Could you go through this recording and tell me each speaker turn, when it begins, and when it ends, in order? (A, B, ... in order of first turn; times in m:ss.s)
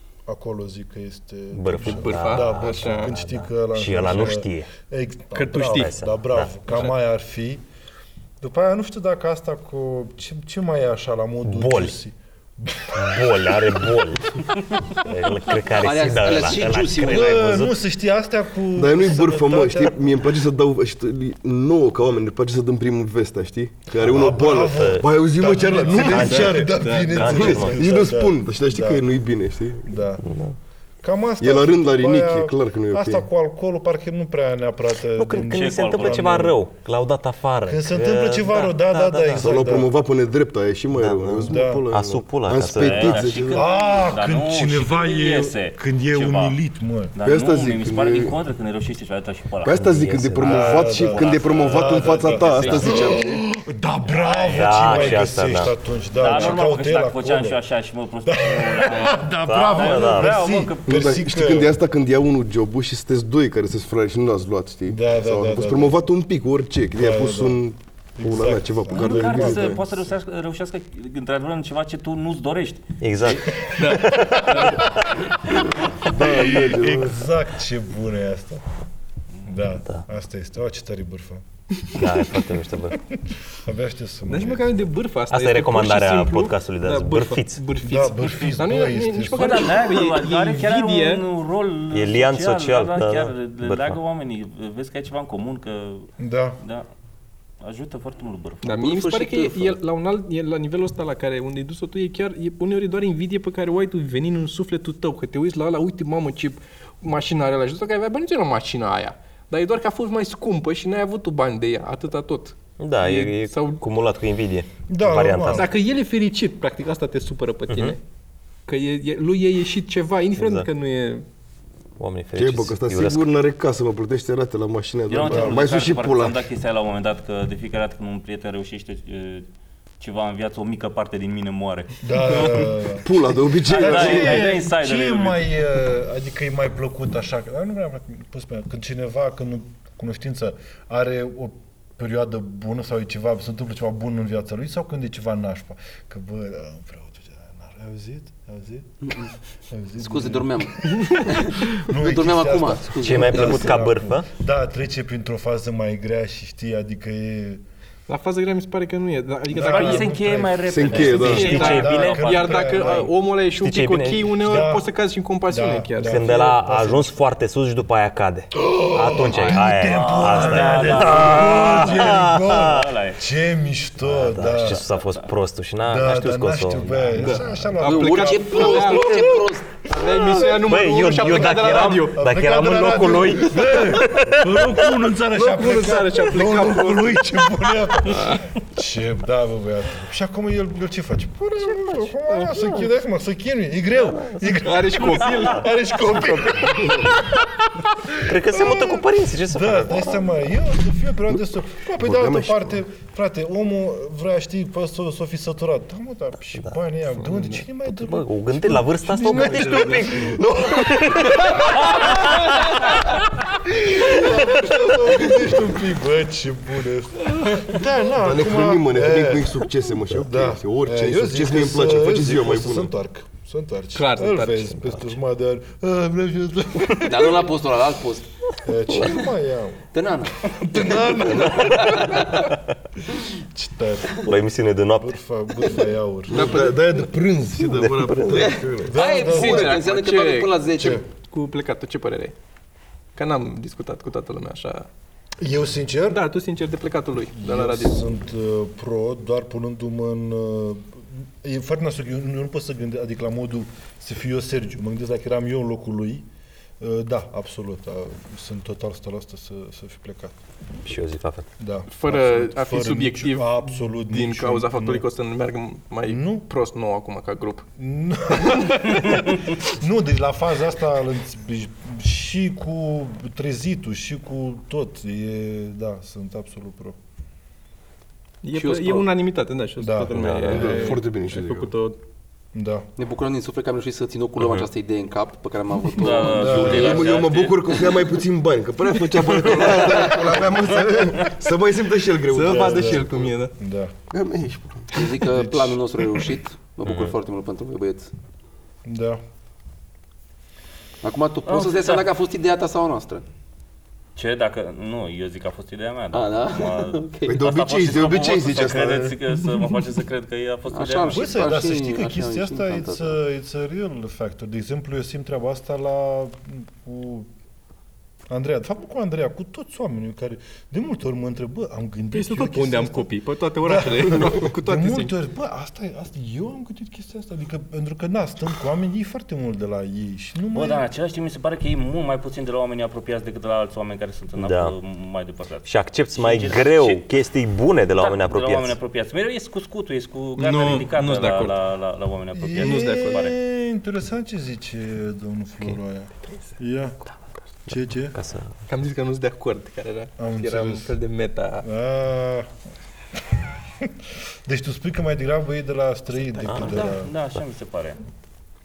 0:00.3-0:07.6 A
0:01.5-0:04.7 B
0:01.8-0:03.1 C
0:05.3-0:06.0 C
0:05.6-0:06.5 B
0:06.7-0:06.9 C
0:08.4-0:13.9 A
0:11.4-0:11.9 B
0:12.9-0:17.7 B
0:15.8-0:17.6 D
0:17.0-0:20.0 A
0:18.7-0:29.9 E
0:24.0-0:29.0 A
0:24.5-0:25.1 B
0:26.0-0:27.8 C
0:26.0-0:27.8 B
0:29.8-0:30.3 A
0:30.2-0:30.6 B
0:31.0-0:36.6 A
0:31.4-0:33.3 E
0:35.1-0:39.6 B
0:35.5-0:36.4 F
0:37.6-0:39.9 A
0:39.4-0:43.7 E
0:40.9-0:43.3 B
0:41.4-0:41.8 A
0:42.7-0:46.6 F
0:43.5-0:47.1 A
0:47.1-0:49.8 F
0:47.2-0:48.4 E
0:49.6-0:53.4 E
0:49.7-0:50.9 B
0:50.4-0:57.6 A
0:51.0-0:53.2 F
0:54.1-0:55.3 F
0:54.5-0:55.7 B
0:56.1-1:01.2 F
0:58.2-1:01.7 A
0:59.4-1:00.3 B
1:00.9-1:09.8 E
1:04.8-1:05.9 A
1:07.0-1:07.6 A
1:08.2-1:10.0 A
1:08.9-1:13.4 F
1:13.0-1:14.5 B
1:13.6-1:18.6 A
1:13.8-1:14.8 C
1:15.8-1:17.2 E
1:19.4-1:21.4 A
1:21.9-1:23.0 B
1:23.5-1:24.8 A
1:24.2-1:31.2 C
1:25.3-1:27.6 B
1:27.8-1:29.7 A
1:29.3-1:36.9 F
1:31.9-1:34.0 B
1:36.2-1:36.6 A
1:37.6-1:38.6 F
1:38.6-1:53.8 C
1:38.7-1:39.8 D
1:52.8-1:55.7 B
1:54.9-1:55.7 A
1:55.5-1:58.0 C
1:57.7-1:58.0 B
1:58.7-2:01.2 C
2:00.4-2:00.7 B
2:02.0-2:03.3 B
2:02.4-2:06.4 E
2:05.1-2:09.5 F
2:05.2-2:05.6 A
2:10.0-2:12.7 F
2:12.0-2:13.1 A
2:12.4-2:14.6 E
2:13.6-2:15.5 F
2:13.6-2:37.6 A
2:29.0-2:29.3 D
2:30.0-2:33.8 D
2:33.0-2:34.3 B
2:38.1-2:40.2 C
2:39.5-2:43.1 A
2:39.6-2:42.9 F
2:40.6-2:41.6 E
2:41.0-2:46.6 C
2:41.2-2:42.0 B
2:43.5-2:44.4 B
2:44.4-2:44.9 A
2:45.5-2:47.2 A
2:46.0-2:53.0 B
2:48.5-2:54.8 A
2:49.9-2:53.2 F
2:54.0-2:57.7 B
2:55.8-3:00.6 A
2:57.2-2:59.3 C
2:57.8-2:59.9 D
2:59.9-3:02.2 C
3:00.0-3:04.8 B
3:01.2-3:47.5 A
3:05.3-3:07.4 C
3:08.0-3:08.5 C
3:14.4-3:15.7 C
3:16.1-3:17.1 B
3:18.2-3:20.4 B
3:22.0-3:22.8 E
3:26.5-3:31.6 B
3:30.3-3:31.4 E
3:38.1-3:42.9 E
3:43.9-3:44.9 C
3:47.0-3:48.3 D
3:48.6-3:49.9 A
3:49.9-3:52.5 D
3:50.4-3:52.5 A
3:51.7-3:52.0 B
3:53.4-3:54.3 A
3:54.2-3:55.2 B
3:55.0-3:56.7 A
3:56.3-3:59.0 E
3:56.3-3:57.1 C
3:57.6-3:58.5 B
3:58.3-4:01.0 D
3:58.8-3:59.8 A
3:59.2-4:00.6 C
4:00.8-4:01.0 A
4:01.1-4:02.3 C
4:03.1-4:04.9 C
4:05.4-4:06.2 A
4:06.1-4:08.0 C
4:07.3-4:16.2 A
4:16.8-4:20.3 A
4:20.8-4:21.5 B
4:21.6-4:25.0 A
4:21.9-4:27.6 C
4:26.0-4:26.4 A
4:27.8-4:37.0 A
4:38.4-4:42.0 C
4:38.5-4:39.1 D
4:39.8-4:40.1 A
4:40.1-4:40.8 B
4:40.5-4:41.7 E
4:42.5-4:42.9 A
4:43.0-4:47.2 D
4:45.9-4:47.8 F
4:46.3-4:47.0 A
4:46.4-4:53.3 E
4:49.1-4:49.8 C
4:52.2-4:53.5 C
4:52.4-4:53.9 A
4:54.1-4:55.0 E
4:54.9-4:58.1 D
4:55.3-4:55.8 A
4:56.8-4:57.1 F
4:58.8-4:59.2 A
5:01.0-5:03.2 D
5:01.5-5:02.0 F
5:04.2-5:11.3 F
5:06.1-5:07.4 D
5:07.2-5:09.2 E
5:10.7-5:13.2 D
5:11.1-5:17.3 A
5:18.3-5:23.1 A
5:22.1-5:25.2 C
5:23.6-5:30.8 A
5:30.5-5:37.0 F
5:34.4-5:34.7 B
5:35.6-5:38.8 B
5:38.0-5:43.4 F
5:40.4-5:41.6 C
5:42.4-5:47.0 A
5:42.6-5:43.3 C
5:47.6-5:48.1 A
5:48.1-5:48.6 B
5:48.7-5:51.6 C
5:50.2-5:51.0 A
5:51.6-5:52.5 A
5:54.4-5:57.1 A
5:56.4-5:57.0 B
5:56.5-5:58.0 F